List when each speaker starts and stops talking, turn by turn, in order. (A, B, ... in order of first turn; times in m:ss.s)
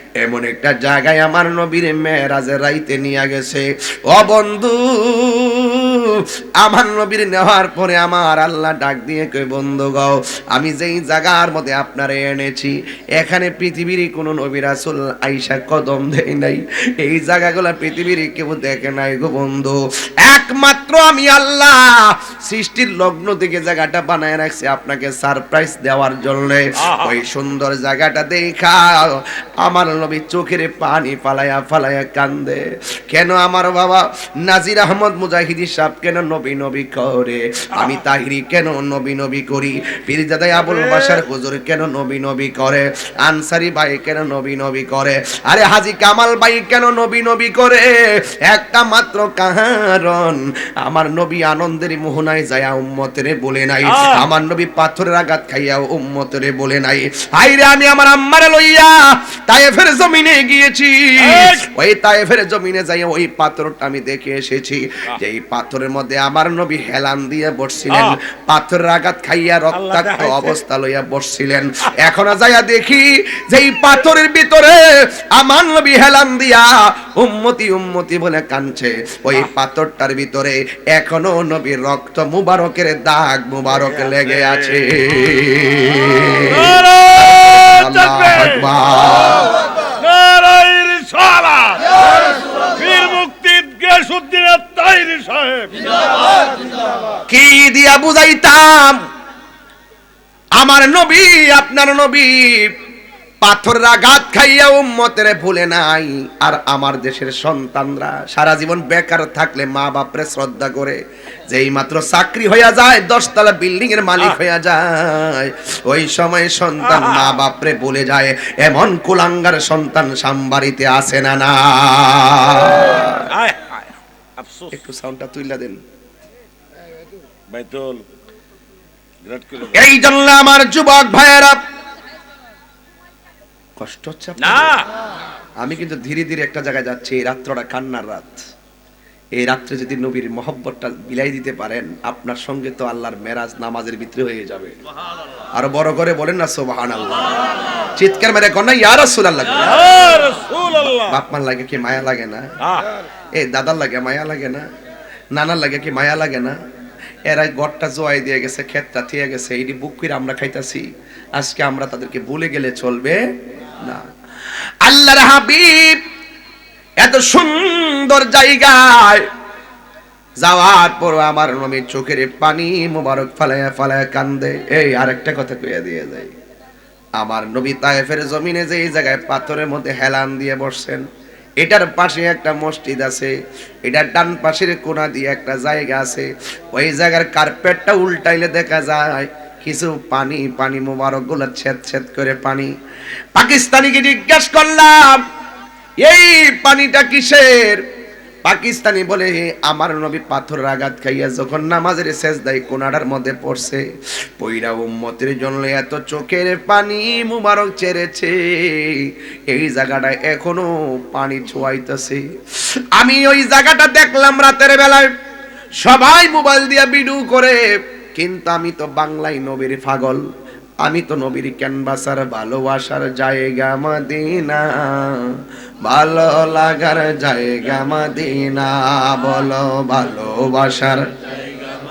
0:00.2-0:47.9 A
0:26.8-0:27.2 B
0:37.8-0:38.0 B
0:40.6-0:41.2 B
0:48.5-1:14.8 A
0:53.9-0:54.2 B
1:01.2-1:01.6 B
1:07.9-1:08.2 B
1:09.7-1:10.6 B
1:15.4-1:29.5 A
1:23.8-1:24.5 B
1:26.5-1:28.7 B
1:30.0-1:35.8 B
1:37.3-1:39.0 A
1:40.6-1:42.7 A
1:43.4-1:51.0 A
1:51.5-2:03.3 A
1:56.8-1:57.4 B
2:02.7-2:04.8 B
2:04.7-2:05.8 A
2:07.5-2:08.0 B
2:09.2-2:09.8 B
2:09.6-2:11.6 A
2:13.8-2:14.8 A
2:14.4-2:14.9 B
2:15.6-2:18.4 A
2:19.4-2:24.8 A
2:25.6-2:27.3 A
2:28.0-2:30.0 A
2:29.6-2:31.2 B
2:30.7-2:32.4 A
2:32.6-2:32.9 B
2:33.4-2:34.6 A
2:35.4-2:36.6 A
2:37.3-2:40.9 A
2:41.4-2:44.1 A
2:44.8-2:46.0 A
2:47.0-2:49.3 A
2:50.4-2:56.3 A
2:57.2-3:01.1 A
3:01.6-3:03.3 A
3:03.9-3:12.7 A
3:13.4-3:15.2 A
3:16.0-3:17.8 A
3:18.4-3:23.8 A
3:24.4-3:32.2 A
3:33.0-3:35.1 A
3:35.8-3:37.6 A
3:38.2-3:40.2 A
3:40.8-3:45.3 A
3:45.8-3:51.1 A